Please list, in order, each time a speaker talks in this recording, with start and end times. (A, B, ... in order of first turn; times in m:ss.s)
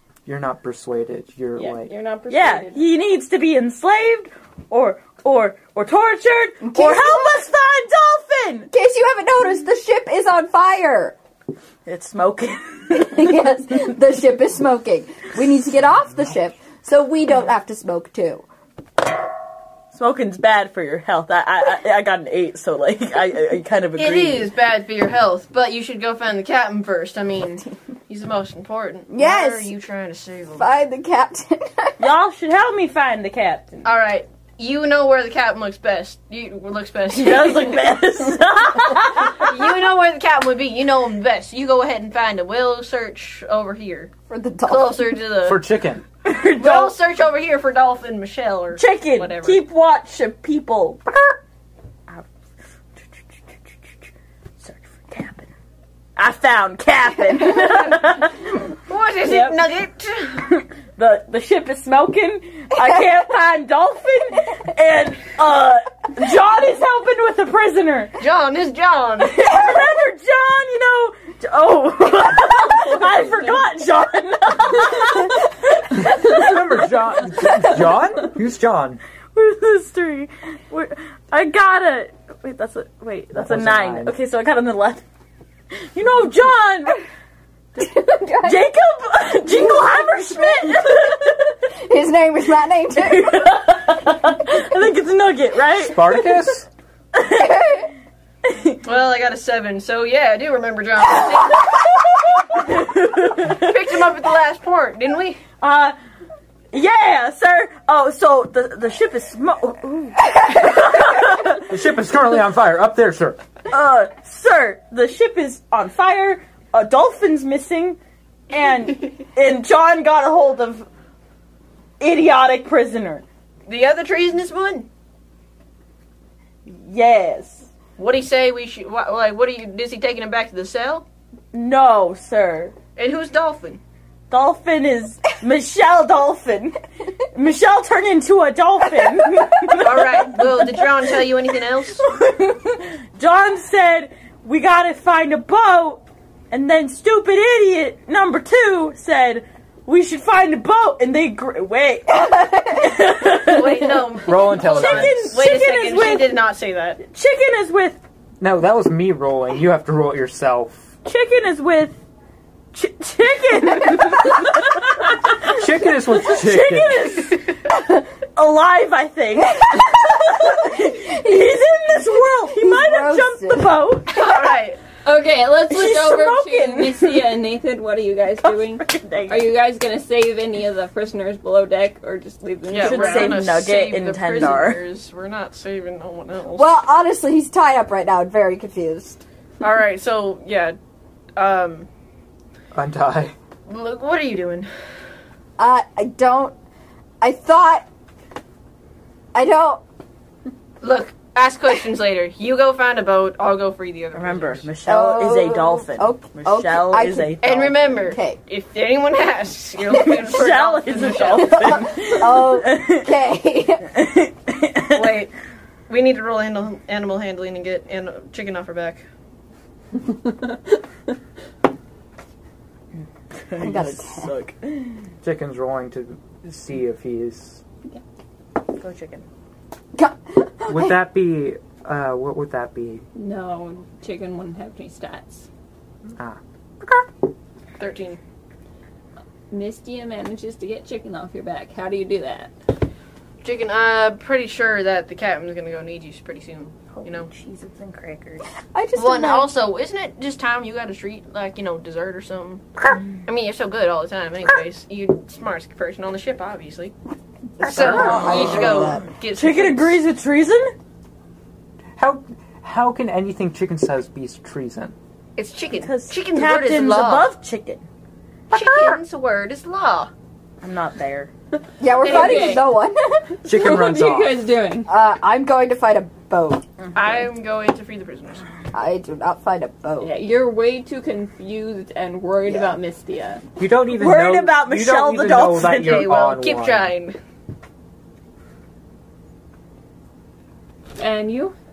0:00.3-0:01.9 A
0:01.6-0:02.9 B
0:02.3-0:08.7 C
0:06.6-0:07.4 D
0:08.7-0:11.2 D
0:11.9-0:13.3 C
0:12.9-0:18.4 D
0:19.9-0:24.5 C
0:24.0-0:30.7 E
0:29.1-0:29.7 D
0:30.6-0:32.1 D
0:32.0-0:33.9 C
0:33.8-0:37.9 E
0:37.1-0:39.6 C
0:39.4-0:44.1 E
0:44.3-0:45.1 D
0:44.7-0:45.6 E
0:45.4-0:46.0 A
0:46.2-0:47.0 C
0:46.6-0:49.6 E
0:48.8-0:51.4 C
0:53.0-0:54.1 C
0:54.6-0:55.5 C
0:56.2-0:58.6 C
0:58.9-1:00.6 E
0:59.2-0:59.6 B
1:00.5-1:08.2 C
1:08.2-1:09.5 E
1:09.2-1:16.6 C
1:13.1-1:13.6 B
1:16.0-1:19.0 A
1:19.3-1:25.0 C
1:23.4-1:24.2 A
1:25.7-1:27.0 C
1:27.8-1:28.7 D
1:28.4-1:31.3 C
1:29.6-1:33.7 D
1:32.9-1:36.2 C
1:35.8-1:36.7 A
1:37.1-1:37.6 C
1:37.2-1:37.9 D
1:38.4-1:38.8 C
1:38.8-1:42.1 E
1:42.6-1:43.9 C
1:43.5-1:45.4 E
1:45.6-1:46.0 C
1:46.7-1:51.6 C
1:51.6-1:53.4 A
1:53.7-1:58.0 C
1:58.5-2:00.9 C
2:02.0-2:03.2 C
2:03.7-2:04.9 E
2:06.7-2:07.7 C
2:08.0-2:11.1 E
2:11.5-2:12.8 C
2:13.0-2:13.8 E
2:14.3-2:20.5 C
2:19.8-2:22.1 E
2:22.0-2:36.4 C
2:32.1-2:33.5 D
2:33.4-2:37.0 E
2:34.3-2:35.4 A
2:37.0-2:38.0 C
2:38.4-2:40.9 A
2:41.0-2:42.0 C
2:42.7-2:47.6 C
2:45.5-2:47.0 A
2:48.3-2:54.2 C
2:49.6-2:54.0 D
2:54.1-2:54.8 E
2:55.0-3:03.5 B
2:55.7-2:57.3 C
2:58.4-2:59.5 C
3:02.7-3:06.8 E
3:02.8-3:04.8 C
3:06.6-3:09.2 D
3:09.6-3:10.8 E
3:11.4-3:11.9 E
3:12.7-3:13.3 A
3:13.7-3:14.7 E
3:15.6-3:16.6 D
3:17.2-3:17.9 D
3:19.3-3:19.8 D
3:20.8-3:24.7 E
3:24.1-3:27.9 C
3:24.8-3:27.4 D
3:27.4-3:31.9 E
3:27.9-3:28.4 D
3:30.0-3:33.2 C
3:31.6-3:33.9 D
3:33.9-3:35.2 C
3:34.9-3:35.3 E
3:35.9-3:39.0 E
3:40.2-3:40.6 B
3:43.0-3:45.1 C
3:43.6-3:44.3 D
3:45.2-3:47.6 A
3:48.7-3:49.2 C
3:50.0-3:51.0 D
3:50.7-3:53.0 A
3:53.2-3:55.5 B
3:56.2-3:57.0 A
3:57.8-3:58.2 E
3:59.5-4:02.5 B
4:03.4-4:07.3 E
4:06.9-4:08.5 C
4:08.7-4:09.5 D
4:09.0-4:16.9 E
4:17.6-4:19.1 D
4:17.6-4:20.0 E
4:17.7-4:20.7 C
4:22.0-4:25.0 A
4:25.4-4:27.3 E
4:25.8-4:27.8 C
4:28.5-4:30.1 E
4:30.6-4:31.3 C
4:31.8-4:33.4 D
4:32.0-4:32.8 B
4:33.4-4:34.4 A
4:33.4-4:34.9 B
4:34.9-4:36.7 D
4:36.9-4:38.4 E
4:38.7-4:40.1 D
4:40.0-4:43.4 B
4:42.5-4:42.7 D
4:43.6-4:46.9 A
4:43.9-4:46.1 C
4:45.6-4:47.2 E
4:51.0-4:51.6 B